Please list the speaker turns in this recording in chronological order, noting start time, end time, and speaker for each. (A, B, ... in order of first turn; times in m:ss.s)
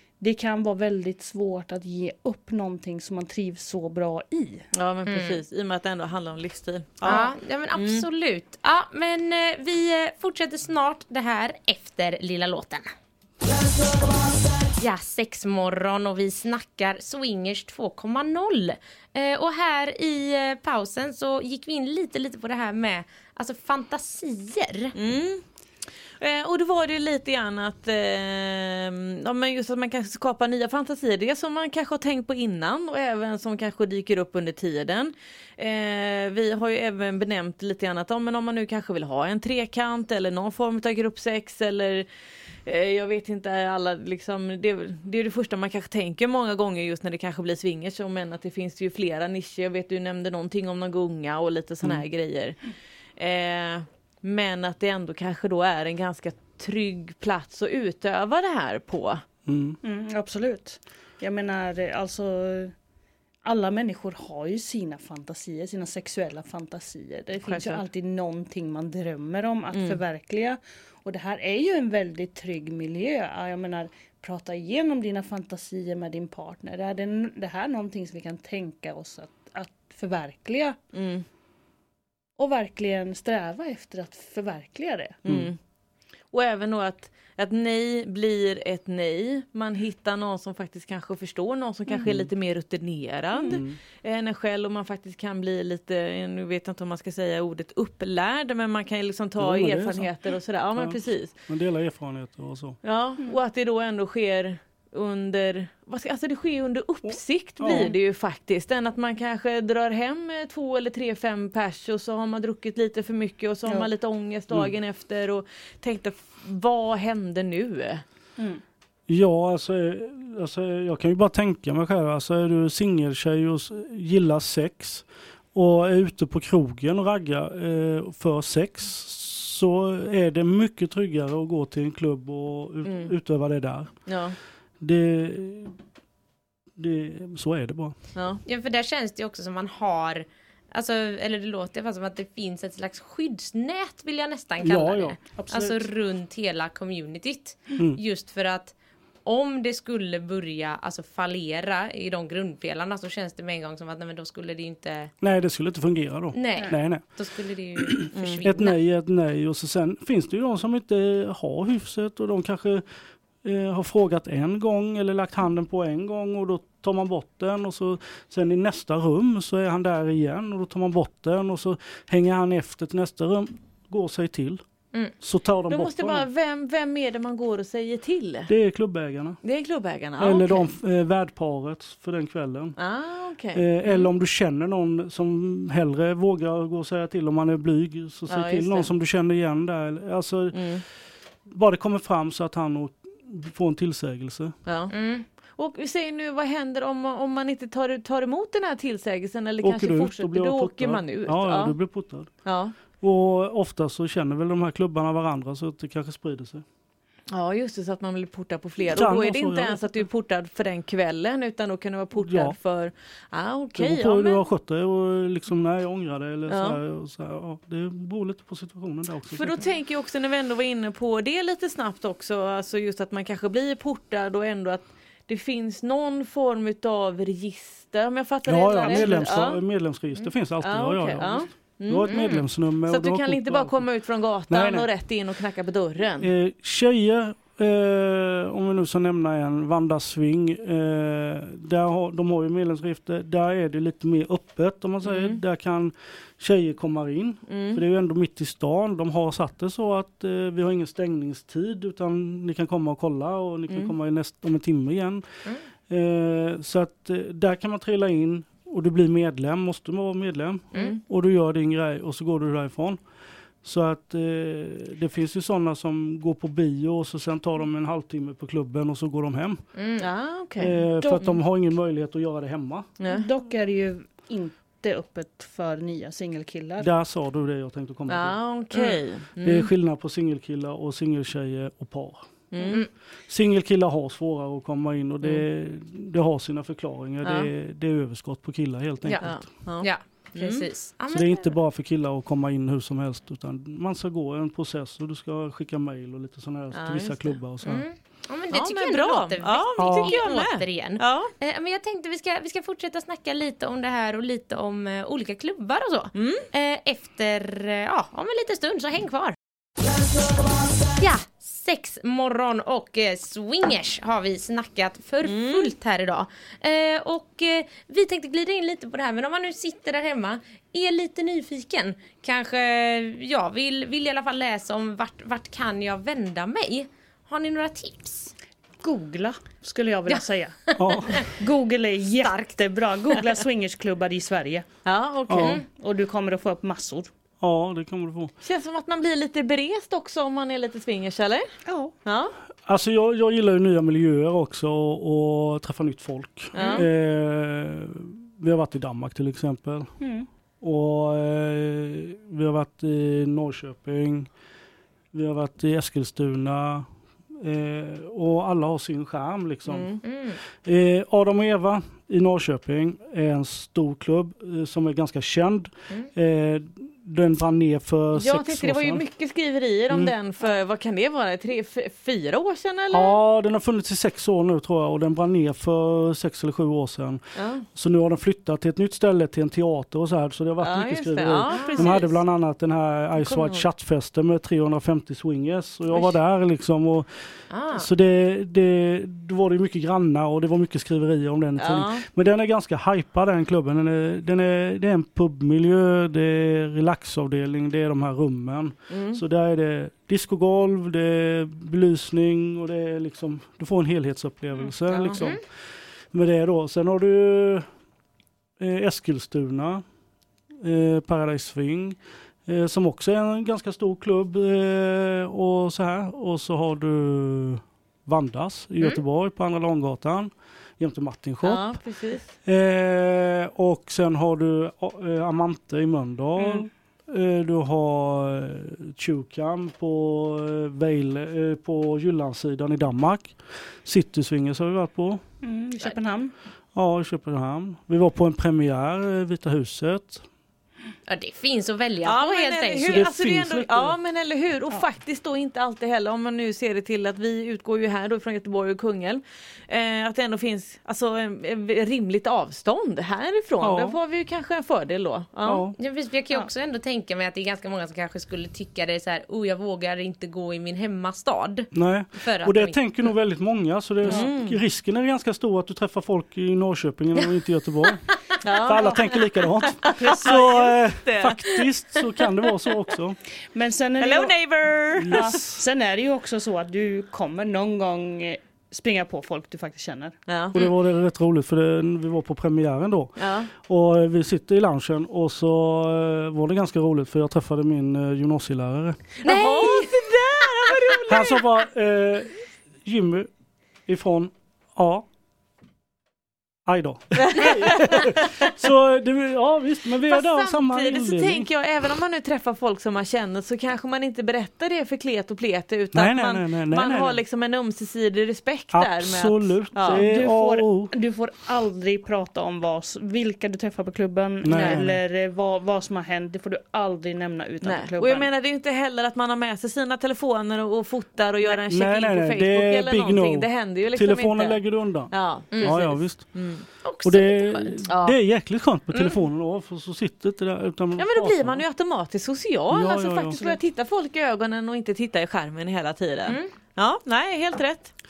0:00.2-0:04.7 A
0:04.7-0:08.0 B
0:05.0-0:05.4 C
0:07.0-0:12.9 C
0:14.8-0:24.9 C
0:24.9-0:25.4 B
0:26.2-0:42.0 B
0:42.6-0:52.6 B
0:53.2-0:59.2 B
0:59.4-0:59.8 D
0:59.8-1:02.7 A
1:03.4-1:20.8 A
1:07.4-1:07.8 B
1:09.7-1:10.0 B
1:20.9-1:21.2 B
1:22.4-1:25.2 A
1:25.2-1:25.6 B
1:25.2-1:25.5 D
1:26.3-1:41.3 B
1:32.0-1:32.3 D
1:33.5-1:33.8 D
1:39.4-1:40.1 D
1:40.8-1:42.8 D
1:42.8-1:58.0 B
1:47.0-1:47.9 D
1:47.7-1:47.9 A
1:59.1-2:14.1 D
2:12.8-2:13.1 B
2:14.0-2:14.4 B
2:14.8-2:15.8 D
2:16.8-2:18.0 D
2:18.1-2:18.4 B
2:18.4-2:35.1 C
2:24.6-2:25.7 D
2:35.2-2:37.2 D
2:36.3-2:38.8 C
2:37.8-2:42.8 D
2:38.2-2:38.4 B
2:43.4-2:54.6 D
2:55.2-2:56.3 D
2:55.7-2:58.5 B
2:58.5-2:59.4 D
2:59.4-3:00.7 B
3:00.2-3:02.8 D
3:02.8-3:04.0 B
3:03.5-3:10.8 D
3:08.3-3:08.9 B
3:10.5-3:10.8 B
3:11.4-3:14.6 D
3:14.6-3:21.8 B
3:14.9-3:15.2 C
3:19.6-3:22.4 D
3:22.4-3:22.7 B
3:23.0-3:26.6 D
3:27.3-3:34.4 B
3:28.8-3:29.8 D
3:32.2-3:32.6 D
3:33.8-3:39.6 D
3:36.5-3:36.8 B
3:39.3-3:49.6 B
3:48.4-3:53.8 D
3:50.6-3:52.2 B
3:52.1-3:52.4 C
3:52.9-3:56.3 B
3:54.5-3:54.9 D
3:56.2-4:15.2 D
4:05.0-4:05.4 B
4:07.5-4:07.8 B
4:15.9-4:23.0 D
4:20.7-4:21.0 B
4:23.6-4:29.6 D
4:29.7-4:30.0 C
4:30.0-4:31.4 B
4:30.6-4:32.9 D
4:33.0-4:33.3 B
4:33.1-4:36.9 A
4:36.8-4:42.2 D
4:38.1-4:39.7 B
4:42.5-4:42.8 B
4:43.3-4:49.4 D
4:47.2-4:47.5 B
4:49.2-4:50.6 B
4:49.8-4:51.5 C
4:51.1-4:57.8 D
4:56.7-4:57.4 B
4:57.6-5:09.3 C
4:58.5-5:01.3 B
4:59.8-5:00.2 D
5:06.1-5:06.5 B
5:11.0-5:28.3 C
5:15.2-5:15.7 B
5:28.8-5:34.6 A
5:30.1-5:31.3 C
5:30.8-5:31.2 D
5:32.2-5:32.6 C
5:34.8-5:35.6 B
5:35.3-5:35.6 D
5:35.4-5:35.6 C
5:35.6-5:37.1 A
5:37.4-5:38.3 D
5:38.4-5:41.4 B
5:41.6-5:41.9 A
5:42.0-5:42.3 B
5:42.6-5:49.9 D
5:46.5-5:46.8 B
5:46.6-5:46.8 A
5:50.0-5:50.3 A
5:50.6-5:54.3 D
5:55.1-6:00.0 D
5:59.7-6:00.0 B
6:00.0-6:00.4 C
6:00.5-6:09.0 D
6:08.1-6:13.2 B
6:12.9-6:27.1 D
6:17.3-6:17.6 B
6:20.6-6:22.2 B
6:21.5-6:22.0 C
6:23.2-6:23.6 B
6:27.5-6:27.9 C
6:27.7-6:45.5 D
6:31.6-6:32.0 B
6:38.9-6:39.2 B
6:44.9-6:45.2 B
6:45.1-6:45.4 C
6:46.1-6:47.7 D
6:48.6-6:49.8 D
6:50.6-7:01.8 D
7:01.4-7:02.3 B
7:02.4-7:15.2 D
7:06.4-7:06.7 A
7:15.4-7:16.3 A
7:16.7-7:20.2 D
7:21.1-7:23.1 C
7:22.0-7:35.7 B
7:22.8-7:24.0 D
7:33.6-7:34.0 D
7:35.4-7:35.8 D
7:35.8-7:42.8 C
7:41.7-7:48.1 D
7:44.0-7:44.6 B
7:48.4-7:49.0 B
7:48.6-7:53.2 D
7:48.7-7:49.0 A
7:49.8-7:50.5 A
7:49.8-7:51.6 B
7:53.5-7:54.3 A
7:54.0-7:55.3 B
7:55.0-7:55.6 D
7:55.1-8:00.2 A
8:00.3-8:00.7 B
8:00.5-8:09.1 D
8:03.2-8:03.5 B
8:09.2-8:11.4 B
8:09.2-8:09.9 C
8:11.1-8:13.3 D
8:13.9-8:15.0 D
8:16.6-8:21.5 D
8:17.2-8:18.5 B
8:20.1-8:30.0 B
8:25.9-8:27.2 D
8:28.7-8:30.9 D
8:29.9-8:38.3 A
8:34.4-8:35.0 D
8:34.5-8:34.8 B
8:37.6-8:46.6 B
8:41.7-8:46.4 D
8:45.5-8:45.8 C
8:46.8-8:47.8 C
8:47.0-8:51.6 D
8:47.9-8:48.2 B
8:48.9-8:49.2 C
8:51.0-8:57.9 B
8:52.7-8:53.4 D
8:56.2-8:56.5 C